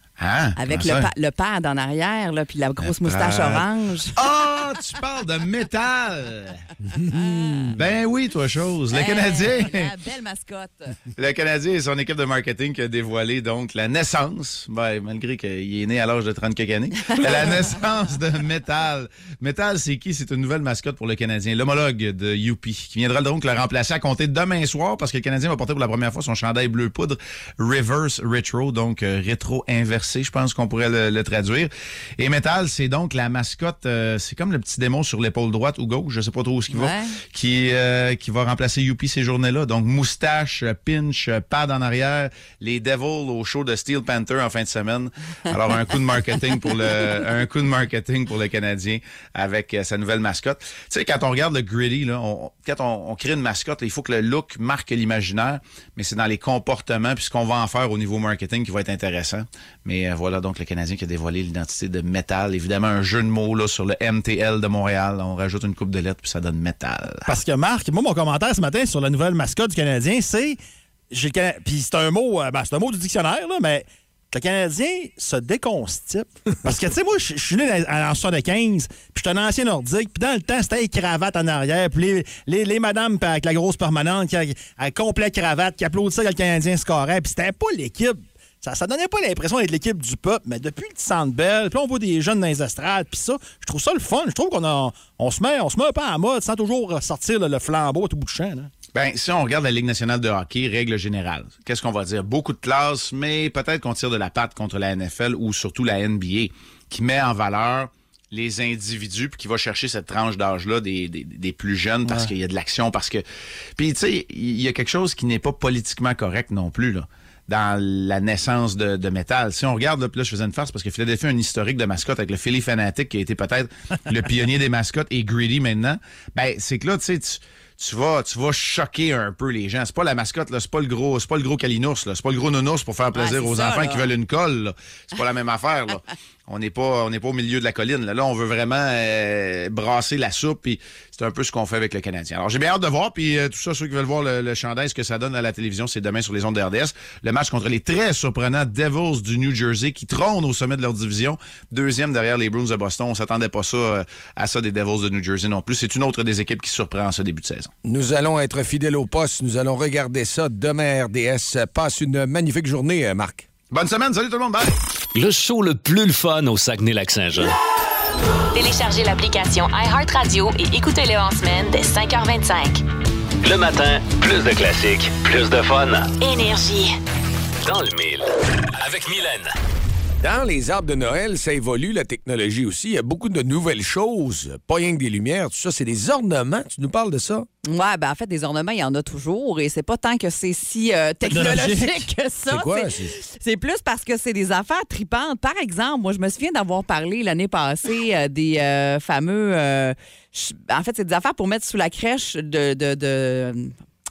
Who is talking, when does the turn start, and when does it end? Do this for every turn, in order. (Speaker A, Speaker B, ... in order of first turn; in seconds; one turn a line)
Speaker A: 0.2-1.1
Speaker B: 0.6-4.2
Speaker A: 2.8-6.6
Speaker B: 7.0-7.7
Speaker C: 7.0-7.6
Speaker A: 7.8-9.9
Speaker B: 8.9-10.9
Speaker A: 11.2-67.3
Speaker B: 36.7-37.2
Speaker D: 67.3-70.6
Speaker D: 71.1-98.7
Speaker A: 98.9-113.2
Speaker D: 112.1-112.3
Speaker A: 113.8-157.7
Speaker B: 133.2-134.1
Speaker C: 157.8-163.5
Speaker A: 163.7-164.7
Speaker E: 165.2-167.6
Speaker F: 168.5-172.8
Speaker E: 173.4-176.2
Speaker F: 176.2-177.0
Speaker E: 177.6-179.5
Speaker C: 180.2-187.5
Speaker B: 187.6-203.8
Speaker D: 191.3-192.1
Speaker C: 192.5-193.2